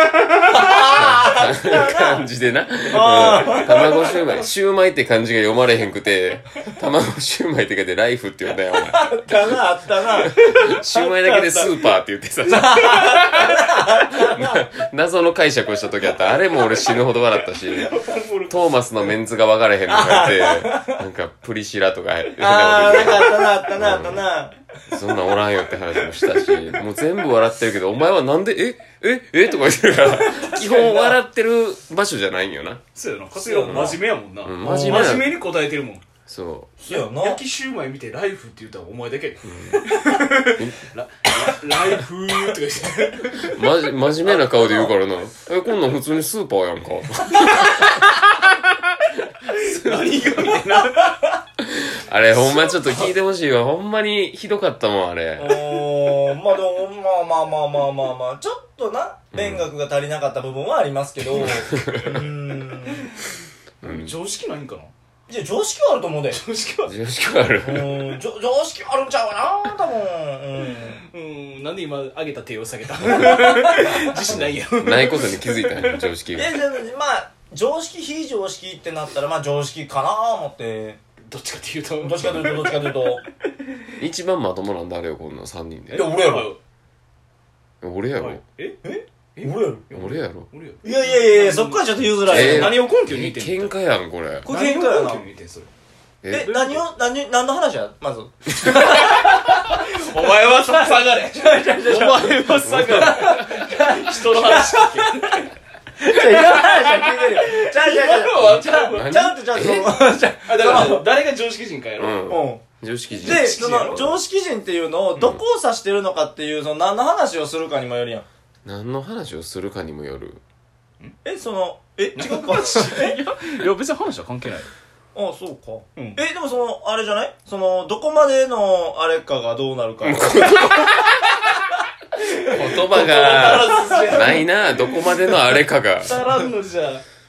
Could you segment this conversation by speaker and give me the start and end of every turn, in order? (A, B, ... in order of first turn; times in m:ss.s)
0:00.5-0:02.3 A
0:00.6-0:09.2 B
0:02.9-0:04.2 A
0:08.8-0:11.8 A
0:10.4-0:13.5 B
0:10.7-0:11.6 C
0:12.5-0:14.6 A
0:14.1-0:17.9 B
0:16.7-0:18.7 C
0:18.5-0:24.2 B
0:19.9-0:21.0 A
0:22.4-0:24.6 A
0:24.9-0:32.8 B
0:30.0-0:31.2 A
0:33.0-0:36.0 C
0:33.4-0:34.0 A
0:33.6-0:35.4 B
0:34.6-0:35.2 A
0:36.3-0:36.7 B
0:36.8-0:37.4 A
0:36.9-0:43.6 C
0:39.4-0:39.8 B
0:40.6-0:40.8 B
0:43.4-0:47.9 B
0:44.2-0:45.0 C
0:49.5-0:51.3 C
0:50.9-0:51.1 A
0:51.6-0:55.6 B
0:52.3-0:53.1 C
0:55.4-1:03.1 A
0:59.3-0:59.7 B
1:01.3-1:02.2 B
1:02.7-1:03.2 C
1:03.8-1:04.2 B
1:03.8-1:04.9 C
1:05.3-1:06.4 A
1:06.3-1:07.0 C
1:06.8-1:08.2 B
1:07.6-1:11.0 A
1:10.8-1:16.2 C
1:14.3-1:16.6 B
1:16.4-1:21.0 A
1:21.3-1:23.9 C
1:22.0-1:23.2 A
1:24.0-1:26.1 B
1:25.9-1:26.6 C
1:25.9-1:26.5 A
1:27.8-1:28.4 B
1:28.2-1:28.8 C
1:28.8-1:29.8 A
1:29.4-1:33.8 C
1:29.9-1:30.5 B
1:30.8-1:32.8 A
1:32.3-1:34.5 B
1:34.4-1:35.7 C
1:34.4-1:35.3 A
1:36.2-1:36.8 B
1:36.3-1:45.4 A
1:38.6-1:45.5 C
1:42.6-1:43.2 B
1:46.0-1:51.1 A
1:46.1-1:49.2 C
1:48.4-1:50.2 B
1:50.4-1:52.3 C
1:52.0-1:54.1 B
1:52.3-1:52.6 A
1:53.1-1:54.2 C
1:53.2-1:58.3 A
1:55.2-1:55.4 B
1:58.6-2:00.4 B
2:01.2-2:03.2 A
2:02.2-2:04.7 C
2:05.2-2:10.7 A
2:06.0-2:06.2 C
2:10.0-2:11.5 B
2:12.3-2:15.0 C
2:12.5-2:16.2 B
2:16.0-2:17.0 C